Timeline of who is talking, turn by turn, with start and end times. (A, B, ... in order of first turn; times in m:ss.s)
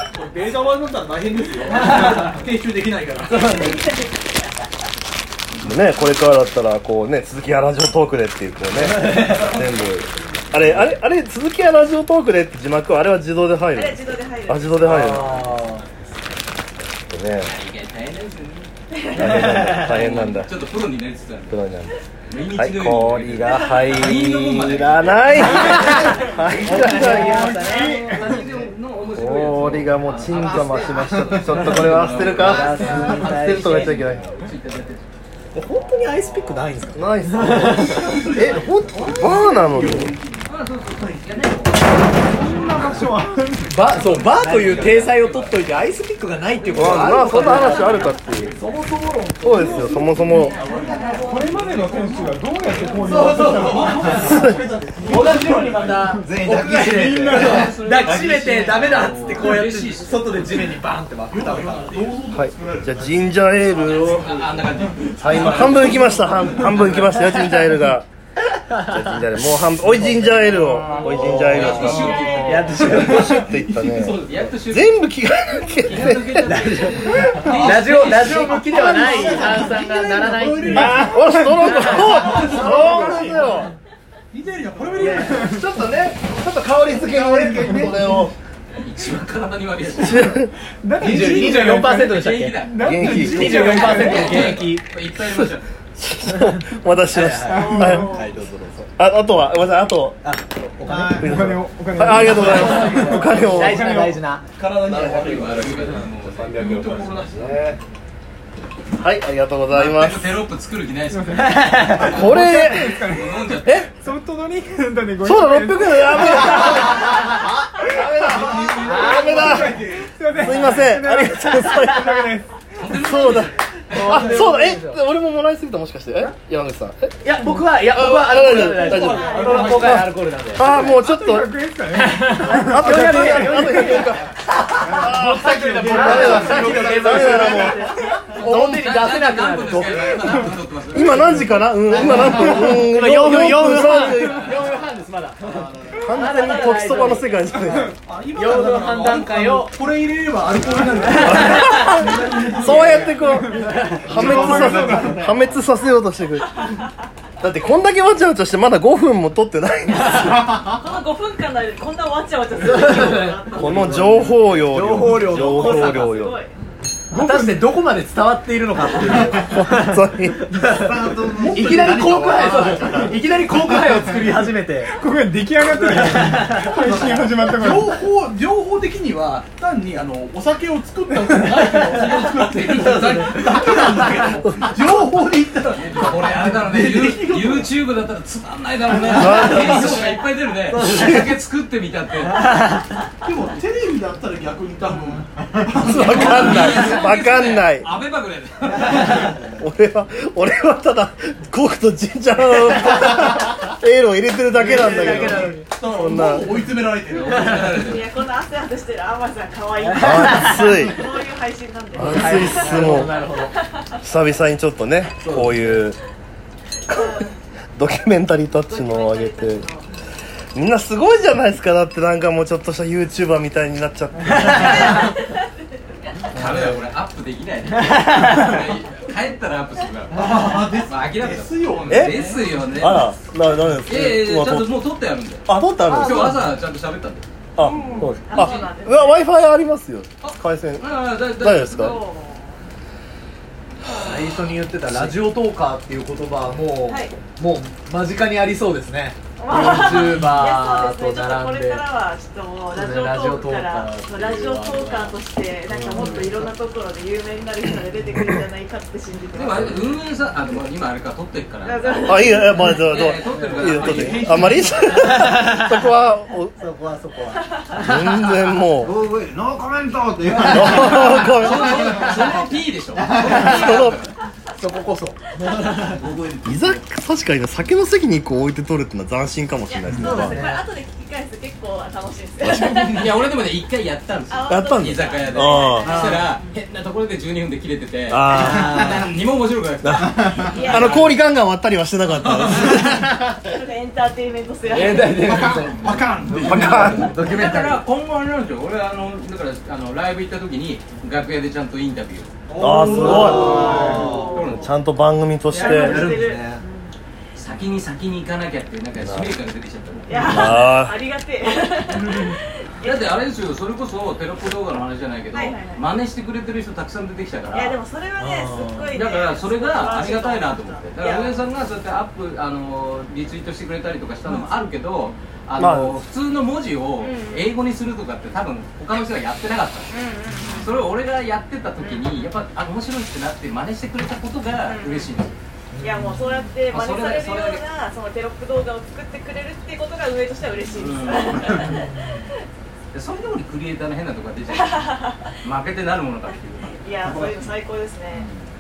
0:00.1-0:03.8 A
0:03.3-0:04.5 B
0:05.6-0:15.5 C
0:09.0-0:09.4 D
0:10.6-0:10.9 E
0:13.7-0:15.4 B
0:14.8-0:15.8 D
0:17.1-0:17.5 C
0:17.4-0:18.7 E
0:18.9-0:19.4 B
0:19.1-0:20.5 C
0:19.3-0:19.9 D
0:19.7-0:21.6 E
0:21.5-0:22.0 C
0:22.3-0:26.0 E
0:22.5-0:27.6 C
0:23.5-0:23.8 B
0:25.6-0:28.1 D
0:26.9-0:35.1 E
0:27.6-0:28.4 F
0:29.1-0:34.3 C
0:30.3-0:31.6 G
0:31.5-0:31.8 D
0:32.4-0:34.0 D
0:33.2-0:33.7 G
0:35.5-0:38.3 D
0:36.9-0:40.1 C
0:37.5-0:41.7 A
0:40.4-0:43.2 E
0:42.3-0:43.1 A
0:42.5-0:43.8 F
0:43.7-0:48.2 D
0:43.9-0:45.9 E
0:44.5-0:44.8 A
0:46.5-0:48.2 E
0:46.7-0:48.6 C
0:48.4-0:56.1 A
0:49.4-0:50.6 C
0:50.4-0:51.9 E
0:50.5-0:51.3 B
0:51.1-0:55.3 F
0:53.0-0:54.4 D
0:53.8-0:54.3 E
0:54.2-0:54.6 C
0:55.0-1:02.2 D
0:56.1-0:57.8 F
0:56.1-0:57.8 G
0:57.3-1:00.6 E
0:59.0-0:59.7 A
1:00.4-1:03.5 A
1:02.3-1:04.3 C
1:03.8-1:07.3 E
1:04.1-1:07.0 A
1:05.2-1:08.1 C
1:08.7-1:09.2 D
1:08.8-1:16.5 C
1:10.0-1:13.5 D
1:10.8-1:13.0 B
1:11.3-1:13.2 E
1:12.8-1:14.5 A
1:14.1-1:19.0 E
1:16.4-1:23.3 D
1:17.5-1:23.3 A
1:20.7-1:23.7 C
1:20.7-1:21.7 F
1:22.9-1:23.5 F
1:24.3-1:25.5 A
1:25.0-1:25.5 D
1:25.2-1:28.3 C
1:25.3-1:25.7 F
1:27.0-1:28.2 A
1:27.5-1:28.1 F
1:28.8-1:30.4 E
1:30.0-1:30.5 C
1:30.8-1:34.6 F
1:31.0-1:34.8 D
1:31.8-1:35.7 E
1:32.8-1:33.9 C
1:36.0-1:38.1 C
1:37.1-1:38.9 D
1:37.5-1:38.1 F
1:37.5-1:38.3 B
1:39.0-1:40.2 C
1:40.2-1:41.5 D
1:40.9-1:41.2 G
1:40.9-1:44.0 C
1:41.2-1:44.2 F
1:42.4-1:44.4 D
1:44.6-1:47.8 A
1:44.8-1:47.8 C
1:44.9-1:47.3 E
1:49.0-1:50.4 C
1:49.7-1:52.4 E
1:51.1-1:56.6 F
1:51.4-1:52.0 D
1:52.0-1:53.0 C
1:52.9-1:53.9 E
1:53.6-1:53.9 C
1:55.2-1:59.8 C
1:56.9-1:57.1 D
1:58.1-2:00.6 A
1:58.6-1:59.4 D
1:59.0-2:02.5 F
2:00.3-2:02.3 C
2:02.8-2:04.3 E
2:02.9-2:11.5 C
2:03.9-2:05.0 D
2:07.2-2:10.7 D
2:08.6-2:09.9 B
2:08.9-2:10.1 A
2:10.6-2:14.1 F
2:12.0-2:20.2 D
2:12.5-2:14.3 C
2:14.9-2:17.7 G
2:15.0-2:18.8 C
2:15.4-2:16.0 F
2:17.4-2:18.1 B
2:18.3-2:21.5 E
2:20.9-2:24.6 C
2:21.9-2:27.6 D
2:23.2-2:24.6 E
2:25.4-2:26.0 G
2:26.0-2:27.9 C
2:27.6-2:27.9 F
2:28.0-2:33.3 A
2:28.3-2:29.8 D
2:31.1-2:31.8 D
2:31.2-2:36.6 C
2:32.6-2:34.1 D
2:33.2-2:35.2 F
2:34.1-2:34.6 A
2:34.6-2:35.3 G
2:37.4-2:40.6 C
2:40.6-2:44.3 B
2:42.6-2:46.2 D
2:43.5-2:46.4 C
2:45.3-2:46.8 B
2:47.1-2:47.7 F
2:47.1-2:50.0 D
2:49.2-2:50.4 C
2:50.5-2:54.3 G
2:50.5-2:55.0 D
2:54.9-2:57.9 F
2:55.8-2:57.1 D
2:57.6-3:07.8 A
3:03.1-3:04.3 D
3:05.7-3:12.5 E
3:09.1-3:10.0 C
3:09.3-3:10.1 A
3:09.5-3:09.8 D
3:10.7-3:11.3 D
3:10.9-3:11.2 C
3:12.3-3:12.8 D
3:13.2-3:17.0 A
3:15.7-3:17.9 C
3:16.0-3:19.3 E
3:19.0-3:26.6 C
3:24.5-3:27.9 A
3:24.6-3:25.7 D
3:27.1-3:28.1 E
3:27.3-3:34.0 B
3:29.8-3:30.7 D
3:30.0-3:31.0 C
3:32.0-3:33.1 C
3:32.0-3:33.6 D
3:34.0-3:36.0 C
3:35.2-3:35.8 D
3:36.9-3:37.4 B
3:36.9-3:39.7 C
3:38.7-3:39.9 B
3:40.6-3:45.1 C
3:44.6-3:45.5 B
3:46.2-3:53.2 E
3:46.4-3:46.8 D
3:47.9-3:48.5 D
3:50.1-3:52.9 A
3:51.9-3:52.2 C
3:52.8-3:54.8 C
3:53.9-3:57.3 E
3:55.5-3:56.4 C
3:55.9-3:56.5 D
3:57.6-4:02.0 C
3:57.6-3:58.1 A
3:58.2-3:59.2 B
3:58.3-3:58.7 E
4:00.2-4:02.0 E
4:01.8-4:02.6 B
4:04.0-4:11.8 D
4:04.9-4:05.2 E
4:06.9-4:07.2 B
4:09.4-4:20.0 B
4:12.7-4:15.2 D
4:15.7-4:16.5 D
4:19.3-4:24.6 E
4:21.6-4:22.7 B
4:22.1-4:26.6 C
4:23.3-4:23.8 D
4:23.7-4:25.4 A
4:25.2-4:25.6 D
4:26.6-4:28.2 D
4:27.7-4:29.0 C
4:28.8-4:31.3 G
4:30.4-4:32.2 C
4:30.5-4:30.8 D
4:30.8-4:34.2 E
4:33.0-4:33.4 G
4:33.2-4:34.0 C
4:33.3-4:33.6 D
4:33.4-4:33.8 B
4:34.6-4:36.0 D
4:35.7-4:36.8 G
4:36.4-4:40.5 C
4:39.7-4:43.3 B
4:40.0-4:40.6 D
4:42.4-4:43.1 C
4:42.9-4:51.1 E
4:44.3-4:46.5 B
4:44.5-4:46.2 C
4:48.1-4:49.0 C
4:48.3-4:49.0 D
4:49.8-4:53.2 C
4:50.5-4:51.1 B
4:52.1-4:53.0 A
4:53.3-4:55.3 B
4:54.7-4:57.8 D
4:55.1-4:57.2 A
4:56.4-4:57.1 C
4:57.1-5:02.3 E
5:02.5-5:04.1 A
5:02.6-5:06.2 C
5:02.7-5:04.4 D
5:03.1-5:04.6 B
5:03.3-5:04.7 E
5:05.5-5:06.9 B
5:05.6-5:06.6 D
5:07.4-5:10.6 E
5:09.0-5:09.4 C
5:10.1-5:13.2 B
5:10.2-5:11.0 C
5:12.8-5:17.8 E
5:15.3-5:15.8 B
5:17.5-5:21.5 B
5:18.2-5:18.9 D
5:18.9-5:29.9 E
5:25.6-5:26.0 C
5:27.0-5:27.5 B
5:29.9-5:30.8 B
5:30.5-5:35.3 E
5:31.8-5:32.1 B
5:34.6-5:35.2 B
5:35.7-5:36.5 D
5:35.8-5:41.9 B
5:36.7-5:37.6 E
5:40.7-5:41.8 E
5:41.5-5:42.3 D
5:42.9-5:46.9 E
5:44.5-5:45.3 B
5:46.8-5:48.3 B
5:47.1-5:47.5 A